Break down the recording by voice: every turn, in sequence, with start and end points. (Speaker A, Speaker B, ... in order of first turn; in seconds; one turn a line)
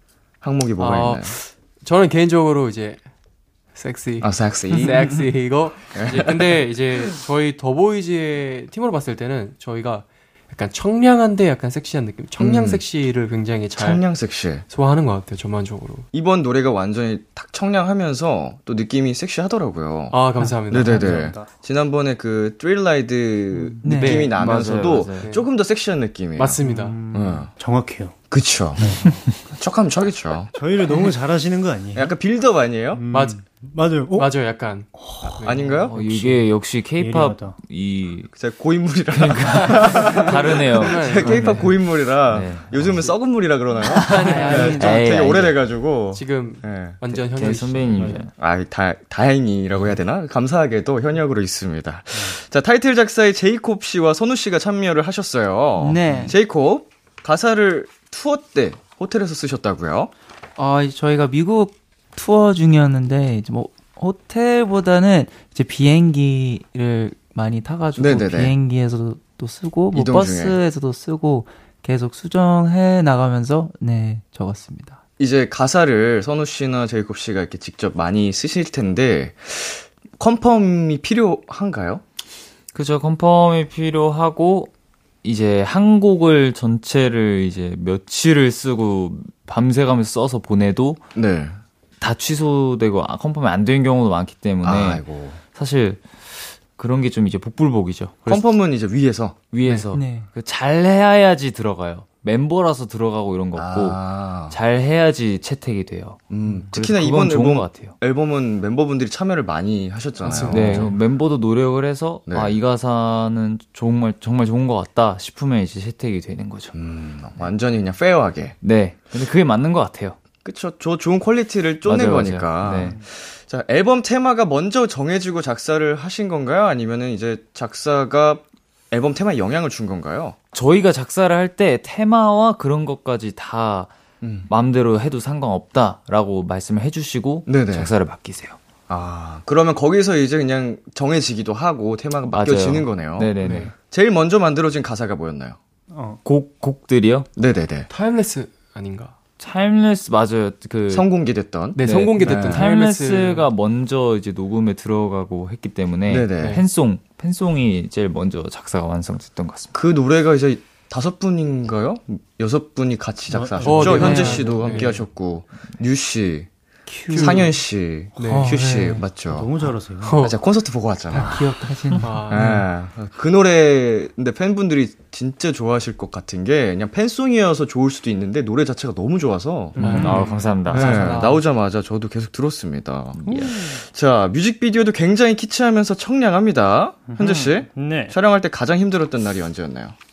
Speaker A: 0.4-1.4
Speaker B: 0.8-3.0
Speaker B: 3.7-14.0
Speaker A: 4.2-5.1
Speaker A: 5.9-6.5
Speaker A: 12.4-12.8
Speaker A: 13.8-14.7
Speaker B: 14.7-16.1
Speaker A: 16.1-20.2
Speaker B: 20.1-21.3
Speaker A: 20.7-26.6
Speaker C: 20.7-21.5
Speaker D: 23.8-24.3
Speaker B: 23.8-25.5
Speaker E: 24.3-25.3
Speaker B: 26.4-27.0
Speaker C: 26.6-28.1
Speaker A: 27.1-27.5
Speaker A: 28.3-29.0
Speaker C: 28.8-29.2
Speaker A: 29.5-30.5
Speaker C: 30.6-32.1
Speaker A: 31.9-33.0
Speaker C: 32.9-34.3
Speaker B: 33.1-33.4
Speaker B: 34.1-35.8
Speaker C: 35.0-37.6
Speaker A: 35.4-35.9
Speaker E: 35.9-38.3
Speaker A: 38.4-47.0
Speaker E: 39.1-43.1
Speaker B: 39.6-41.7
Speaker E: 43.9-45.6
Speaker B: 43.9-44.8
Speaker D: 44.1-45.1
Speaker B: 46.1-48.2
Speaker E: 47.3-48.3
Speaker A: 48.4-60.1
Speaker D: 55.8-56.4
Speaker D: 60.6-75.0
Speaker A: 68.0-68.5
Speaker A: 69.9-70.6
Speaker A: 75.2-82.0
Speaker E: 82.7-84.7
Speaker E: 85.2-91.0
Speaker A: 91.2-91.6
Speaker E: 92.0-96.1
Speaker A: 94.6-95.4
Speaker E: 96.7-98.5
Speaker A: 98.3-99.4
Speaker E: 99.5-108.0
Speaker D: 99.9-100.3
Speaker A: 103.5-104.6
Speaker A: 106.3-110.9
Speaker B: 110.3-110.9
Speaker E: 110.5-116.8
Speaker A: 112.3-112.6
Speaker A: 116.7-118.6
Speaker E: 118.6-120.2
Speaker A: 120.5-130.4
Speaker E: 121.8-123.0
Speaker E: 130.5-133.9
Speaker A: 134.2-134.5
Speaker E: 134.5-138.6
Speaker A: 137.5-137.9
Speaker A: 138.9-145.6
Speaker E: 142.3-143.7
Speaker B: 143.4-143.7
Speaker C: 145.9-146.2
Speaker E: 146.2-147.3
Speaker A: 147.4-147.9
Speaker B: 147.9-149.2
Speaker E: 149.4-151.1
Speaker A: 150.9-152.7
Speaker B: 151.8-153.5
Speaker E: 151.8-159.7
Speaker A: 156.1-156.6
Speaker A: 159.7-166.5
Speaker C: 163.3-164.9
Speaker B: 163.6-165.0
Speaker D: 166.9-167.5
Speaker B: 167.1-167.5
Speaker A: 167.1-169.5
Speaker B: 168.2-168.5
Speaker D: 168.2-169.0
Speaker C: 169.3-170.2
Speaker B: 170.0-170.4
Speaker A: 170.2-171.4
Speaker D: 171.1-172.6
Speaker B: 172.0-172.5
Speaker A: 172.3-180.0
Speaker C: 179.8-180.3
Speaker B: 179.8-180.4
Speaker E: 179.8-181.2
Speaker D: 180.7-181.4
Speaker A: 180.7-189.9
Speaker E: 183.2-183.6
Speaker C: 183.2-183.8
Speaker C: 187.1-188.2